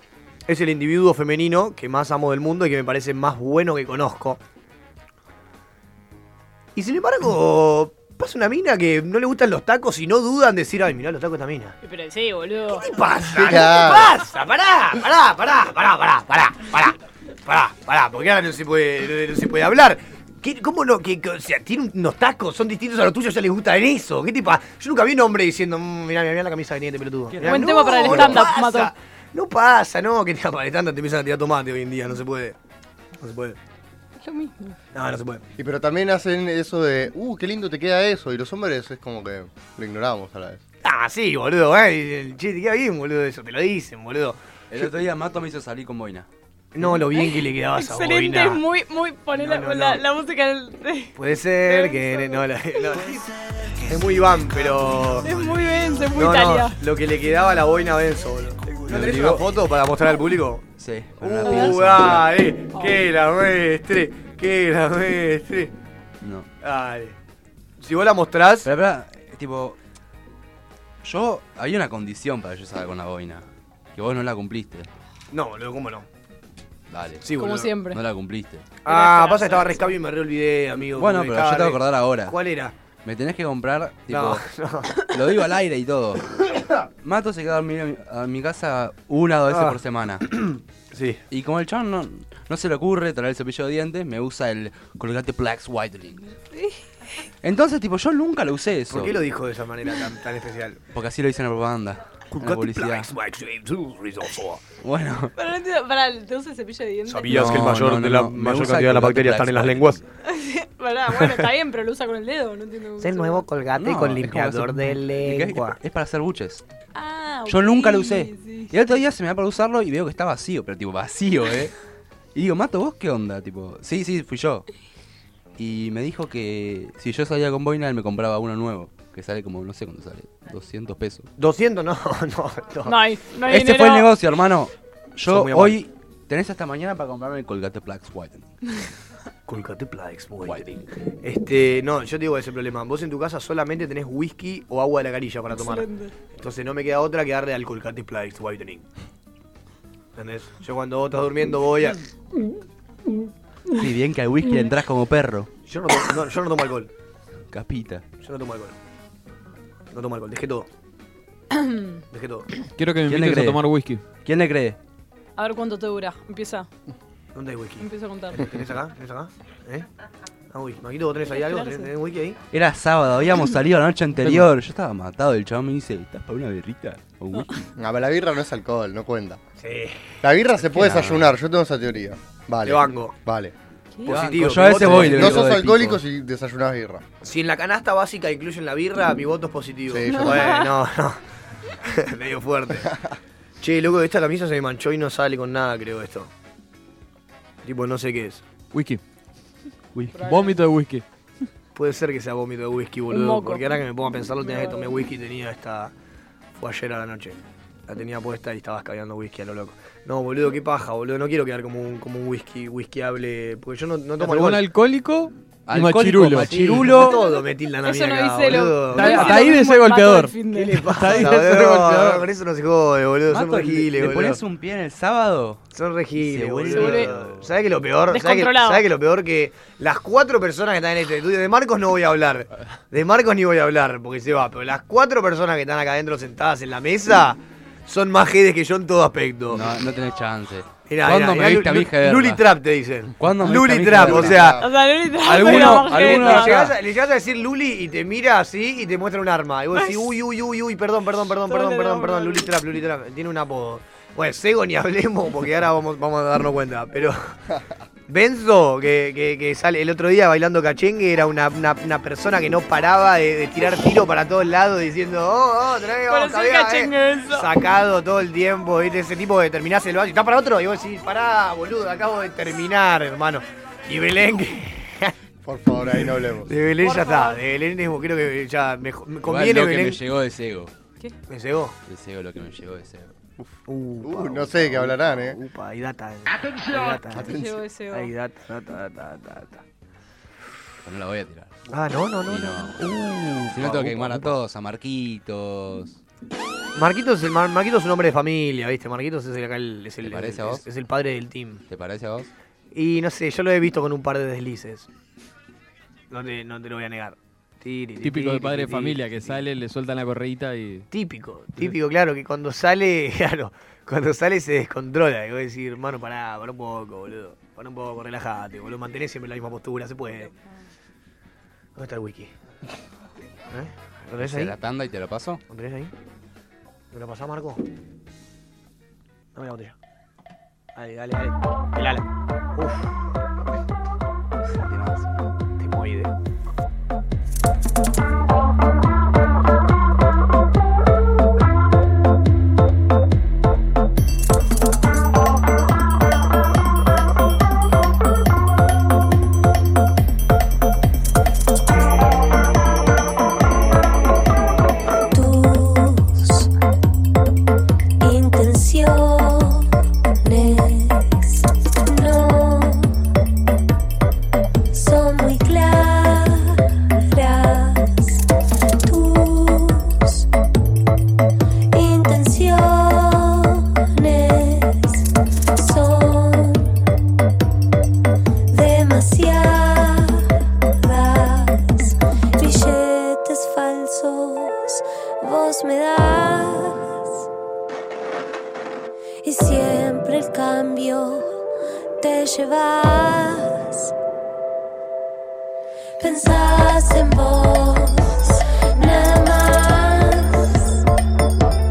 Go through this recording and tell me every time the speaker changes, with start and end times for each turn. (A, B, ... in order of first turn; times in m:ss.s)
0:00.5-0:04.4 A
0:06.8-0:11.8 A
0:11.8-0:12.9 B
0:12.7-0:32.6 A
0:13.3-0:14.2 C
0:27.3-0:27.8 D
0:27.4-0:28.9 B
0:28.0-0:28.4 C
0:33.2-0:33.6 A
0:34.2-0:34.8 B
0:34.9-0:35.4 A
0:35.6-0:40.6 C
0:40.8-0:44.9 A
0:44.7-0:46.3 D
0:46.7-0:48.6 A
0:46.8-0:53.0 B
0:49.4-0:50.0 A
0:51.2-0:53.2 A
0:53.8-0:55.3 A
0:55.2-0:56.8 B
0:56.2-1:00.6 A
0:58.9-0:59.5 D
1:00.8-1:02.3 D
1:01.2-1:05.7 A
1:01.4-1:01.8 B
1:02.7-1:03.0 B
1:06.2-1:06.5 D
1:06.6-1:07.2 A
1:07.8-1:08.7 A
1:08.6-1:09.8 D
1:11.0-1:14.9 D
1:15.3-1:16.1 A
1:16.9-1:17.3 D
1:17.2-1:17.7 A
1:17.3-1:18.0 B
1:17.9-1:18.7 D
1:18.8-1:22.7 A
1:18.8-1:19.9 B
1:20.9-1:22.4 D
1:23.0-1:30.3 D
1:24.1-1:25.0 A
1:29.5-1:31.2 A
1:31.3-1:36.3 D
1:36.5-1:36.8 B
1:37.4-1:39.2 D
1:38.9-1:40.8 A
1:40.9-1:43.1 D
1:42.3-1:44.6 A
1:44.8-1:45.3 D
1:45.4-1:47.7 B
1:47.1-1:50.0 A
1:47.3-1:50.0 D
1:50.2-1:53.4 B
1:51.2-1:51.5 A
1:53.0-1:55.8 A
1:53.8-1:56.6 D
1:57.0-1:58.8 B
1:57.5-2:01.7 D
2:02.4-2:04.7 D
2:05.6-2:11.3 D
2:11.4-2:13.0 A
2:12.8-2:14.1 B
2:13.5-2:18.5 D
2:15.3-2:15.8 A
2:19.5-2:28.8 A
2:25.5-2:26.1 B
2:30.2-2:32.0 A
2:33.7-2:35.5 D
2:35.7-2:36.9 A
2:37.5-2:38.0 D
2:38.2-2:38.8 A
2:39.9-2:40.7 A
2:41.5-2:42.0 B
2:42.1-2:42.5 A
2:42.8-2:44.0 E
2:43.1-2:43.7 D
2:44.2-2:44.8 D
2:45.4-2:46.7 B
2:47.3-2:49.9 A
2:47.8-2:48.5 B
2:50.5-2:52.4 A
2:51.3-2:51.9 B
2:52.5-2:57.6 D
2:54.2-2:54.5 E
2:57.8-2:59.4 C
2:59.6-3:00.1 A
3:00.2-3:03.5 C
3:00.7-3:01.3 D
3:02.6-3:03.2 A
3:04.0-3:05.5 A
3:04.0-3:06.0 D
3:04.8-3:07.0 C
3:07.2-3:12.9 A
3:09.9-3:10.6 C
3:10.1-3:10.7 B
3:13.6-3:16.3 A
3:17.6-3:18.4 A
3:18.7-3:19.0 E
3:20.0-3:21.0 E
3:20.1-3:20.6 B
3:21.8-3:25.9 A
3:23.1-3:23.8 B
3:24.4-3:25.0 B
3:26.6-3:34.6 A
3:34.2-3:37.1 E
3:35.7-3:37.2 D
3:36.5-3:39.4 A
3:36.9-3:41.3 B
3:38.9-3:42.2 E
3:40.5-3:44.4 A
3:43.3-3:45.6 D
3:45.7-3:59.6 A
3:46.2-3:47.5 D
3:46.7-3:47.1 B
3:48.1-3:48.8 B
3:59.5-4:02.4 D
4:00.9-4:04.6 A
4:03.2-4:04.6 D
4:03.9-4:04.7 C
4:04.6-4:06.7 B
4:05.1-4:06.8 D
4:05.3-4:17.4 A
4:09.8-4:10.1 B
4:11.4-4:12.5 B
4:18.1-4:35.2 A
4:26.1-4:27.5 B
4:35.4-4:36.5 C
4:35.9-4:40.0 A
4:36.8-4:37.4 B
4:39.2-4:40.7 D
4:41.3-4:41.8 A
4:41.9-4:43.1 D
4:43.4-4:45.4 C
4:43.7-4:47.3 A
4:47.1-4:47.6 C
4:47.2-4:48.1 B
4:47.9-4:49.6 A
4:50.8-4:51.6 D
4:51.7-4:54.3 A
4:52.3-4:52.8 D
4:53.5-4:56.0 D
4:56.8-5:01.6 A
5:00.0-5:00.6 D
5:01.7-5:02.3 D
5:02.7-5:04.9 A
5:06.1-5:09.4 A
5:08.0-5:10.9 E
5:10.9-5:20.3 A
5:21.8-5:22.3 A
5:23.5-5:24.6 A
5:24.2-5:25.4 D
5:25.5-5:25.9 A
5:26.9-5:27.6 A
5:29.4-5:29.8 A
5:30.8-5:33.0 A
5:34.4-5:35.3 D
5:35.6-5:36.1 A
5:55.1-5:56.5 F
5:58.0-5:59.7 F
6:00.2-6:03.0 F
6:04.7-6:08.3 F
6:08.8-6:10.3 F
6:11.7-6:16.7 F
6:18.5-6:27.2 F
6:29.2-6:31.4 F
6:32.0-6:33.9 F
6:36.0-6:40.7 F